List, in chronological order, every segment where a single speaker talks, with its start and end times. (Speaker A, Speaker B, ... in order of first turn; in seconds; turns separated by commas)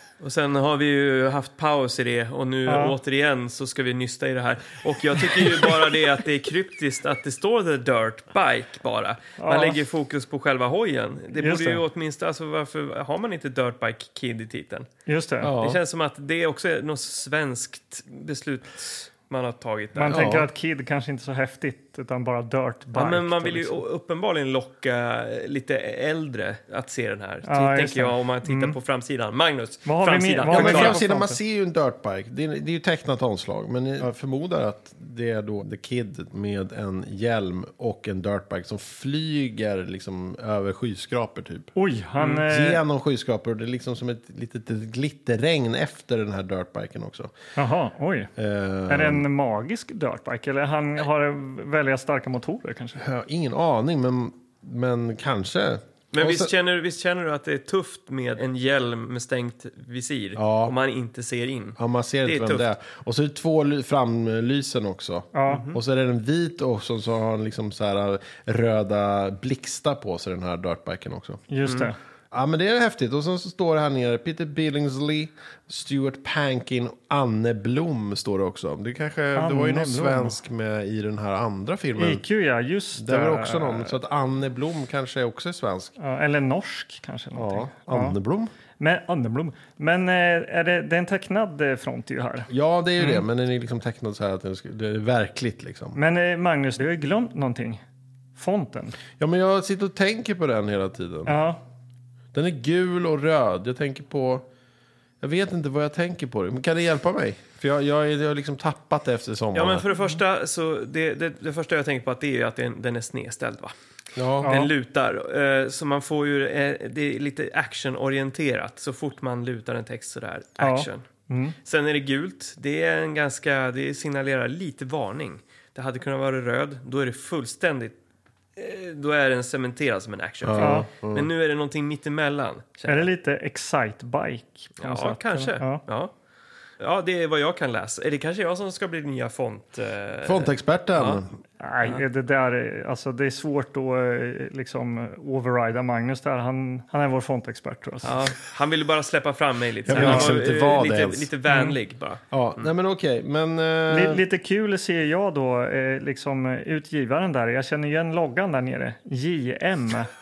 Speaker A: 0.2-14.9, Speaker B: 2.7-3.0, Speaker B: 9.4-9.8, Speaker B: 11.4-11.8, Speaker B: 15.1-15.5, Speaker C: 15.4-15.8, Speaker A: 15.4-20.3, Speaker B: 20.0-23.8, Speaker C: 20.1-20.5, Speaker A: 22.9-31.0, Speaker B: 27.5-28.8, Speaker B: 29.9-31.4, Speaker C: 30.5-41.7, Speaker B: 41.8-42.8, Speaker C: 42.5-47.3, Speaker B: 47.6-48.3, Speaker C: 48.4-49.3, Speaker B: 48.9-53.0, Speaker C: 53.0-56.5, Speaker A: 56.1-62.7, Speaker C: 60.4-60.8, Speaker C: 61.8-71.4, Speaker B: 65.3-65.6, Speaker A: 65.5-65.8, Speaker B: 71.5-72.0, Speaker C: 72.3-82.2, Speaker B: 79.3-80.4, Speaker B: 82.0-84.0, Speaker C: 83.0-85.9, Speaker B: 86.0-88.2, Speaker C: 87.3-88.5, Speaker B: 88.8-92.5, Speaker C: 92.5-96.0, Speaker B: 96.0-97.8, Speaker B: 98.4-99.0, Speaker C: 99.2-101.4, Speaker B: 101.3-101.6, Speaker C: 102.3-104.5, Speaker C: 105.2-109.8, Speaker A: 109.5-113.7, Speaker C: 114.2-114.5, Speaker A: 114.4-121.0, Speaker B: 114.4-114.7, Speaker B: 120.6-121.6, Speaker A: 121.6-128.0, Speaker A: 128.6-133.1, Speaker C: 130.4-131.3, Speaker B: 130.6-130.9, Speaker B: 132.9-135.8, Speaker A: 134.8-136.1, Speaker A: 136.8-141.2, Speaker C: 140.2-141.4, Speaker B: 141.6-148.2, Speaker A: 148.0-152.7, Speaker C: 149.8-151.3, Speaker B: 149.9-150.3, Speaker B: 151.5-151.8, Speaker C: 152.3-154.2, Speaker B: 153.9-160.1